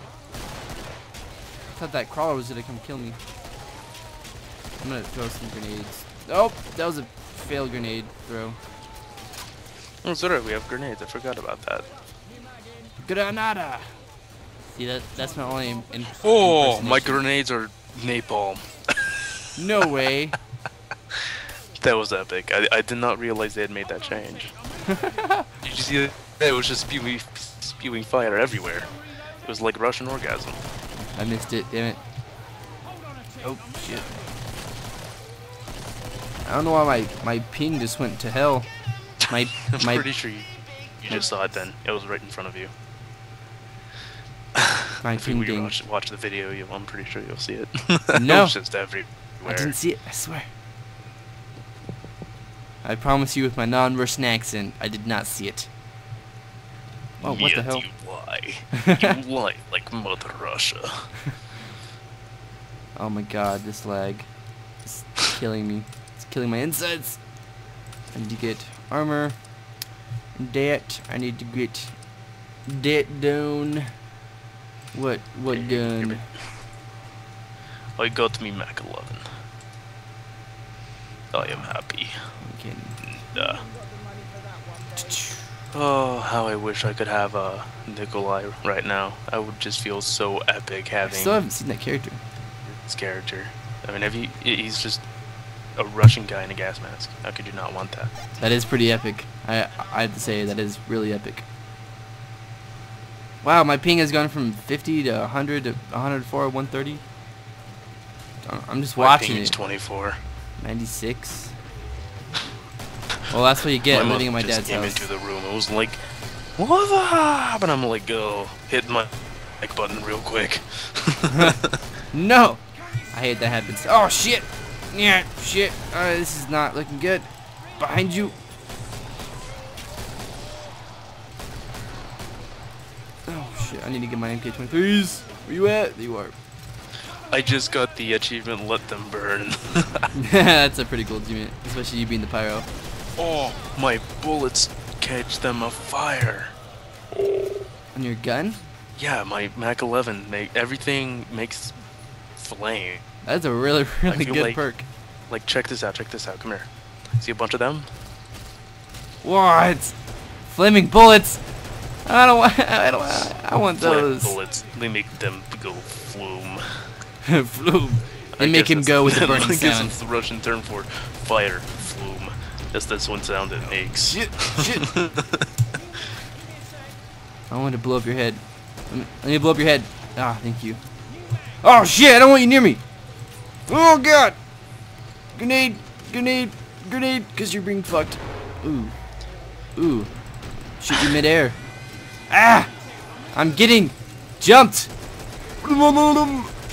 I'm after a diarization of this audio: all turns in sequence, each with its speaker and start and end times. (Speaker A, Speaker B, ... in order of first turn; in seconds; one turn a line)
Speaker A: 1.8-3.2
Speaker A: 4.8-8.6
Speaker B: 10.0-11.9
Speaker A: 13.0-14.0
Speaker A: 14.7-17.2
Speaker B: 16.2-19.2
Speaker A: 19.6-20.4
Speaker B: 21.8-24.6
Speaker A: 24.9-25.5
Speaker B: 25.6-28.9
Speaker B: 29.4-30.6
Speaker A: 31.0-32.0
Speaker A: 33.4-34.1
Speaker A: 36.5-38.7
Speaker A: 39.2-40.1
Speaker B: 39.7-42.7
Speaker B: 44.6-49.8
Speaker A: 45.0-45.8
Speaker A: 48.1-48.6
Speaker A: 49.5-50.5
Speaker A: 52.8-55.7
Speaker B: 57.2-61.1
Speaker A: 57.2-57.9
Speaker A: 58.7-59.1
Speaker A: 63.0-64.3
Speaker A: 64.8-67.2
Speaker A: 68.1-69.4
Speaker A: 70.3-72.0
Speaker A: 72.7-73.9
Speaker A: 74.9-76.3
Speaker B: 75.5-76.4
Speaker B: 78.0-79.3
Speaker B: 81.3-82.2
Speaker A: 81.4-81.7
Speaker A: 82.4-83.0
Speaker B: 83.0-83.7
Speaker A: 84.9-85.5
Speaker B: 85.7-91.4
Speaker A: 91.0-92.2
Speaker B: 92.7-95.1
Speaker B: 95.8-98.1
Speaker A: 98.4-101.5
Speaker A: 103.4-107.0
Speaker A: 108.5-109.6
Speaker B: 109.0-110.2
Speaker A: 110.6-111.6
Speaker A: 113.3-115.1
Speaker B: 113.9-116.0
Speaker B: 116.6-119.1
Speaker B: 119.6-121.8
Speaker A: 121.3-121.6
Speaker A: 122.1-127.3
Speaker A: 127.8-128.3
Speaker A: 133.3-136.3
Speaker B: 137.3-140.1
Speaker A: 140.1-142.7
Speaker B: 143.2-146.5
Speaker A: 147.9-148.6
Speaker B: 149.0-151.8
Speaker B: 152.3-153.0
Speaker A: 153.2-154.9
Speaker B: 154.1-154.6
Speaker B: 155.3-157.9
Speaker A: 159.2-159.9
Speaker A: 160.5-161.4
Speaker A: 162.1-164.3
Speaker B: 163.8-166.8
Speaker A: 167.2-170.0
Speaker B: 168.3-175.5
Speaker A: 174.0-174.9
Speaker A: 177.5-180.8
Speaker A: 181.6-182.8
Speaker A: 183.7-184.4
Speaker A: 185.3-189.0
Speaker A: 189.8-190.1
Speaker A: 190.8-191.6
Speaker A: 192.3-192.7
Speaker A: 193.3-194.9
Speaker A: 195.6-196.5